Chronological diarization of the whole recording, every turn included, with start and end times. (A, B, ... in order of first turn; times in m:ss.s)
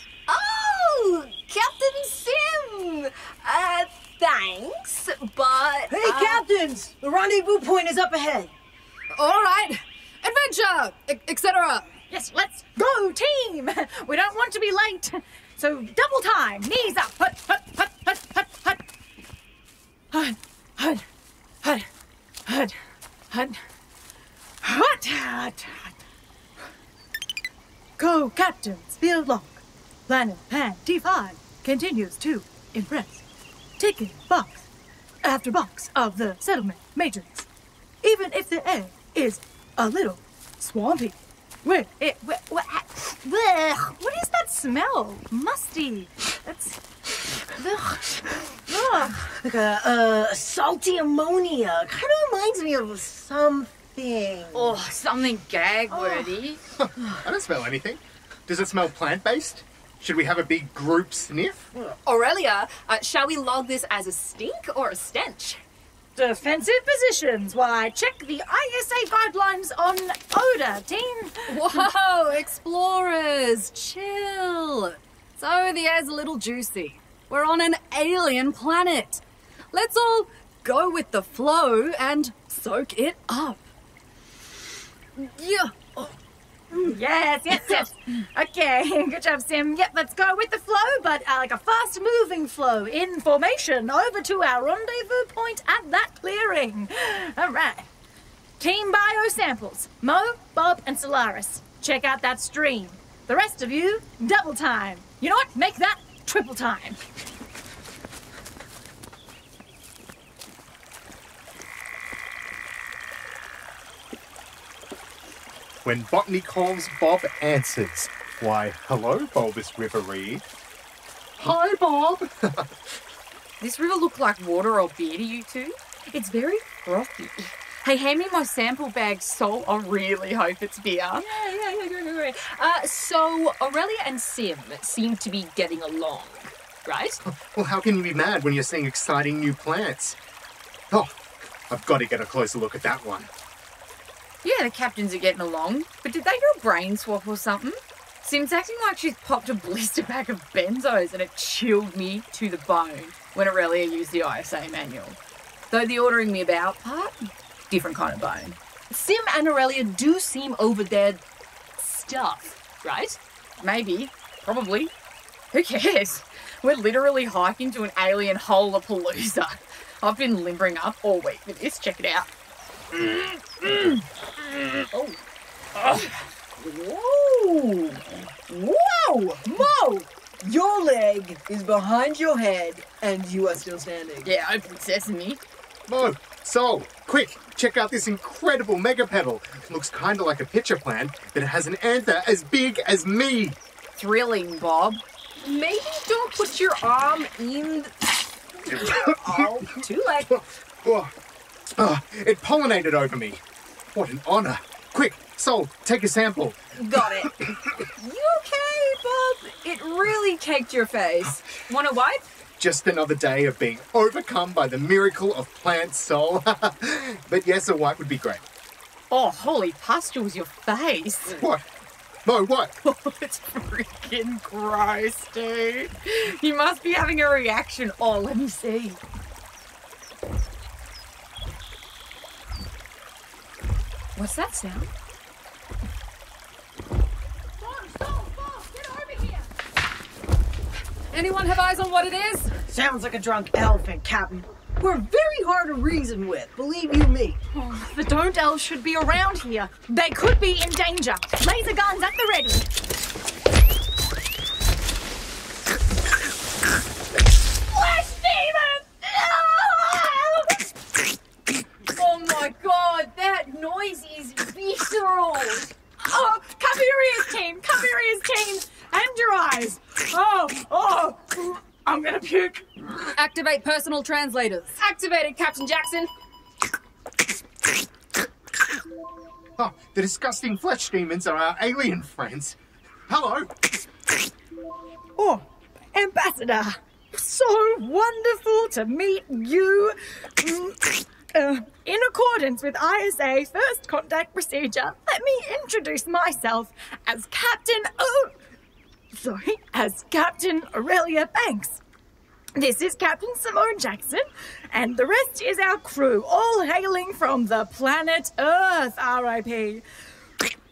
0:00.3-0:06.4 A
0:05.9-0:08.5 B
0:09.1-0:11.9 C
0:12.1-0:18.8 D
0:20.1-0:21.0 D
0:22.5-0:22.8 D
0:23.3-0:23.6 D
0:24.6-0:25.9 D
0:28.0-0:33.2 D
0:33.8-0:34.6 D
0:35.2-0:37.5 D
0:38.0-0:46.8 D
0:47.5-0:49.3 D
0:49.2-0:54.8 B
0:54.5-0:56.6 E
0:56.8-1:01.6 F
1:02.0-1:05.6 A
1:06.2-1:11.8 D
1:11.5-1:19.2 C
1:19.7-1:23.7 C
1:25.2-1:26.1 C
1:26.7-1:37.9 D
1:27.5-1:27.8 C
1:38.6-1:47.0 D
1:55.8-2:00.4 F
2:01.4-2:02.7 F
2:03.6-2:11.2 E
2:11.2-2:17.2 A
2:17.2-2:20.2 F
2:20.9-2:23.3 F
2:24.4-2:35.2 E
2:35.7-2:38.6 E
2:38.9-2:41.2 A
2:41.8-2:43.2 A
2:43.6-2:44.9 E
2:45.5-2:52.3 E
2:56.6-2:58.0 B
2:58.5-2:59.5 B
3:00.4-3:04.3 B
3:04.2-3:05.4 E
3:05.9-3:13.6 F
3:14.0-3:15.0 E
3:15.4-3:20.3 A
3:18.7-3:21.1 F
3:21.7-3:23.4 F
3:23.9-3:27.8 F
3:26.8-3:32.2 E
3:32.6-3:38.4 F
3:39.1-3:41.4 E
3:41.3-3:41.6 F
3:42.2-3:42.7 F
3:42.8-3:49.0 E
3:54.2-3:54.9 E
3:57.6-3:59.4 D
4:01.1-4:02.5 C
4:02.7-4:07.4 B
4:07.5-4:12.7 D
4:19.0-4:20.0 E
4:21.9-4:25.7 E
4:26.0-4:32.6 D
4:33.1-4:34.8 C
4:34.7-4:36.1 A
4:39.6-4:43.5 F
4:45.2-4:58.4 D
4:59.1-5:01.8 D
5:02.6-5:09.8 D